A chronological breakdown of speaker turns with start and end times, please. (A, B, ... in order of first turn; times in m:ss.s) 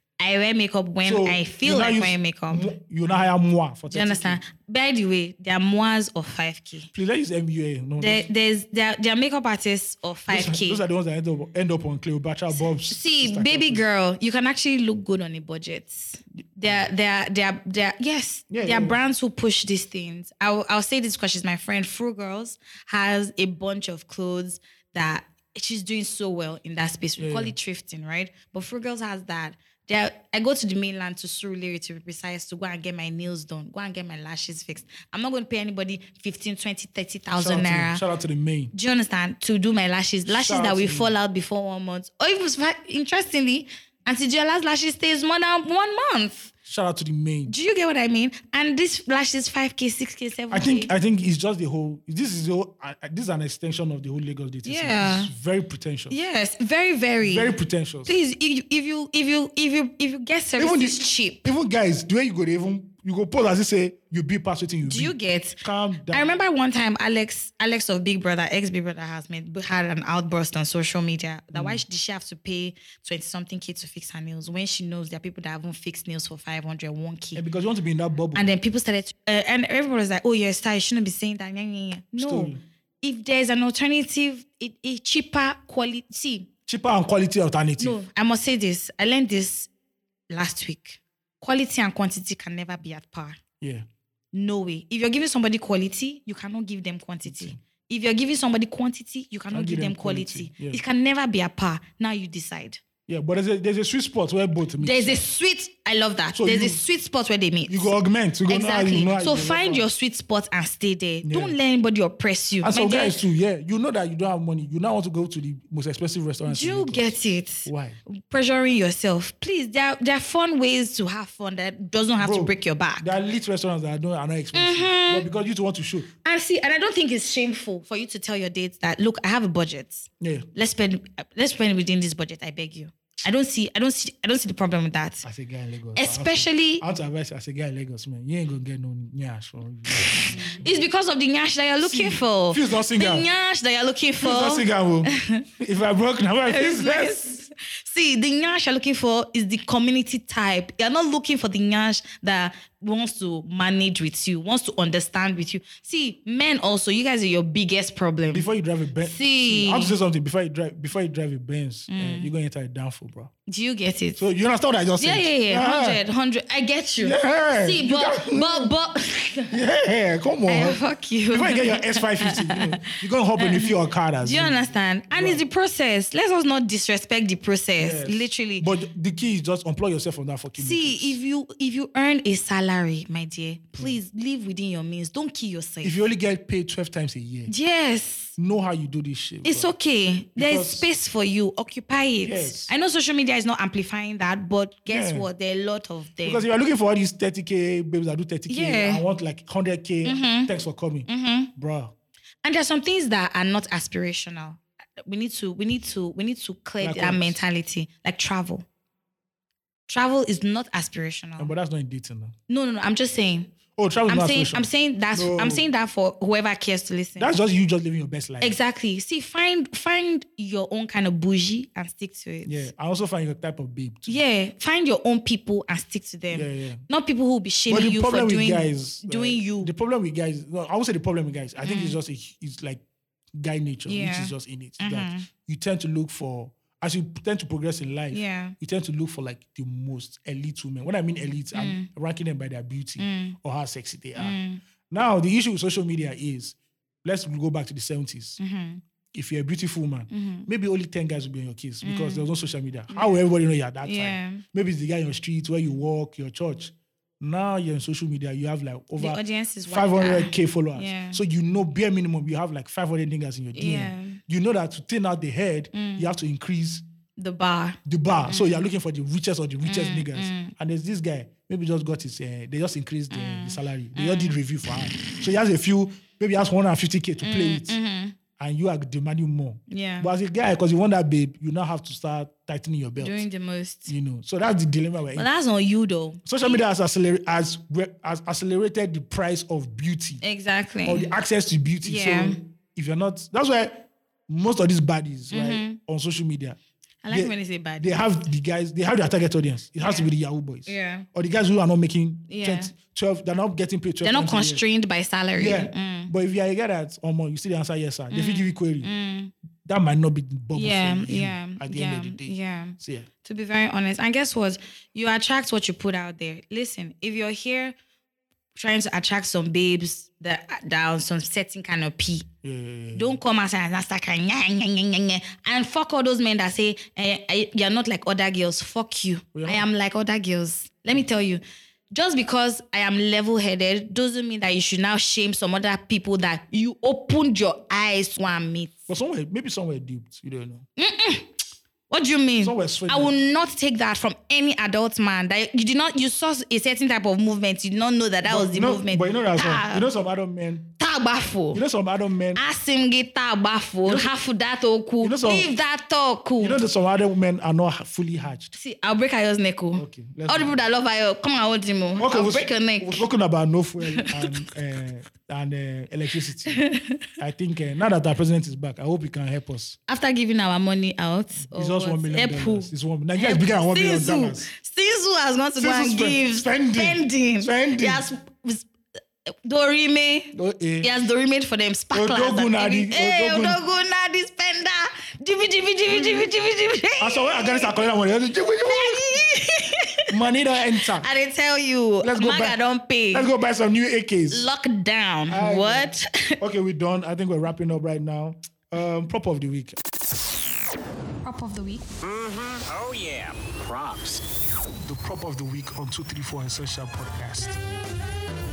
0:00.2-0:02.7 A
0:01.0-0:04.4 B
0:03.9-0:06.9 A
0:06.9-0:08.3 B
0:08.0-0:10.8 A
0:10.3-0:13.8 B
0:12.5-0:38.0 A
0:18.5-0:19.0 B
0:27.2-0:27.5 B
0:37.4-0:38.7 B
0:38.7-0:46.5 A
0:40.2-0:41.1 B
0:46.6-0:47.5 B
0:47.5-0:50.9 A
0:50.5-0:56.2 B
0:54.6-0:55.3 A
0:56.1-0:57.5 A
0:57.2-0:58.1 B
0:58.0-1:01.4 A
1:00.6-1:06.2 B
1:04.8-1:17.4 A
1:11.5-1:11.8 B
1:17.3-1:18.5 B
1:18.3-1:26.5 A
1:22.2-1:22.6 B
1:26.7-1:28.0 B
1:27.8-1:29.7 A
1:30.3-1:33.4 A
1:33.6-1:33.8 B
1:34.3-1:42.8 A
1:37.2-1:37.6 B
1:39.5-1:40.8 B
1:43.1-1:45.2 B
1:44.8-1:47.9 A
1:46.3-1:46.8 B
1:47.7-1:49.9 B
1:48.5-1:53.2 A
1:51.2-1:51.5 B
1:52.6-1:58.0 B
1:56.4-2:03.1 A
2:02.2-2:06.1 B
2:04.5-2:05.3 A
2:06.2-2:15.2 A
2:10.2-2:10.5 B
2:15.2-2:20.7 B
2:16.0-2:16.8 A
2:20.0-2:25.4 A
2:21.8-2:23.3 B
2:24.2-2:27.4 B
2:26.4-2:38.4 A
2:38.3-2:43.3 B
2:39.0-2:39.9 A
2:41.9-2:42.3 A
2:43.5-2:44.2 A
2:44.2-2:46.0 B
2:45.0-2:49.6 A
2:47.0-2:48.7 B
2:49.5-2:50.8 B
2:50.5-2:58.7 A
2:51.3-2:55.4 B
2:57.8-3:01.2 B
3:00.6-3:06.0 A
3:05.8-3:07.5 B
3:07.5-3:08.4 A
3:08.4-3:09.7 B
3:09.4-3:16.4 A
3:10.4-3:10.9 B
3:12.2-3:12.7 B
3:14.9-3:15.2 B
3:16.2-3:21.9 B
3:18.5-3:19.0 A
3:20.0-3:20.5 A
3:21.1-3:21.5 A
3:22.4-3:28.6 A
3:26.8-3:27.4 B
3:29.9-3:31.5 A
3:31.4-3:32.3 B
3:32.5-3:33.5 A
3:33.8-3:35.6 B
3:34.1-3:37.3 A
3:37.2-3:38.6 B
3:38.4-3:42.7 A
3:42.4-3:44.2 B
3:44.1-3:49.7 A
3:46.3-3:46.8 B
3:47.7-3:52.8 B
3:51.6-3:52.0 A
3:53.3-4:04.4 B
3:53.9-3:55.3 A
3:58.1-3:58.5 A
4:01.5-4:01.9 A
4:03.0-4:03.4 A
4:04.2-4:04.6 A
4:04.9-4:08.4 B
4:08.4-4:08.8 A
4:09.1-4:26.8 B
4:10.1-4:10.5 A
4:11.8-4:12.2 A
4:12.9-4:13.2 A
4:13.8-4:14.4 A
4:19.0-4:21.2 A
4:23.5-4:24.2 A
4:25.7-4:26.1 A
4:27.2-4:28.6 A
4:27.8-4:37.8 B
4:29.6-4:30.5 A
4:33.1-4:34.4 A
4:37.2-4:38.2 A
4:38.4-4:43.2 B
4:39.7-4:40.1 A
4:43.0-4:43.9 A
4:43.9-4:45.3 B
4:45.2-4:46.6 A
4:46.2-4:50.2 B
4:50.2-4:51.1 A
4:50.8-4:56.6 B
4:51.8-4:52.4 A
4:55.3-4:55.8 A
4:57.0-4:58.0 A
4:57.1-5:04.6 B
4:59.8-5:00.0 A
5:00.7-5:01.0 A
5:02.3-5:02.7 A
5:04.0-5:06.1 A
5:05.3-5:08.9 B
5:08.1-5:09.3 A
5:09.6-5:13.1 B
5:10.5-5:17.7 A
5:18.6-5:22.3 A
5:22.4-5:23.2 B
5:22.9-5:38.8 A
5:29.3-5:29.6 B
5:38.9-5:40.6 B
5:40.8-5:41.3 A
5:41.9-5:49.8 A
5:42.4-5:43.1 B
5:48.2-5:50.7 B
5:50.8-5:51.6 A
5:51.5-5:52.4 B
5:52.4-5:56.6 A
5:53.8-5:54.1 B
5:55.0-5:55.5 B
5:56.4-5:58.5 B
5:58.5-6:03.0 A
5:59.8-6:00.6 B
6:02.0-6:06.6 B
6:03.9-6:04.3 A
6:06.5-6:07.0 A
6:07.2-6:09.8 B
6:09.9-6:18.7 A
6:11.4-6:14.5 B
6:15.6-6:18.1 B
6:19.3-6:27.8 A
6:20.3-6:20.9 B
6:21.9-6:23.6 B
6:25.9-6:26.3 B
6:27.0-6:29.2 B
6:28.7-6:30.0 A
6:30.1-6:31.1 B
6:30.9-6:33.3 A
6:32.0-6:32.6 B
6:33.1-6:34.5 B
6:34.3-6:36.4 A
6:35.3-6:39.8 B
6:41.2-6:41.8 A
6:43.7-6:44.1 B
6:44.8-6:47.6 B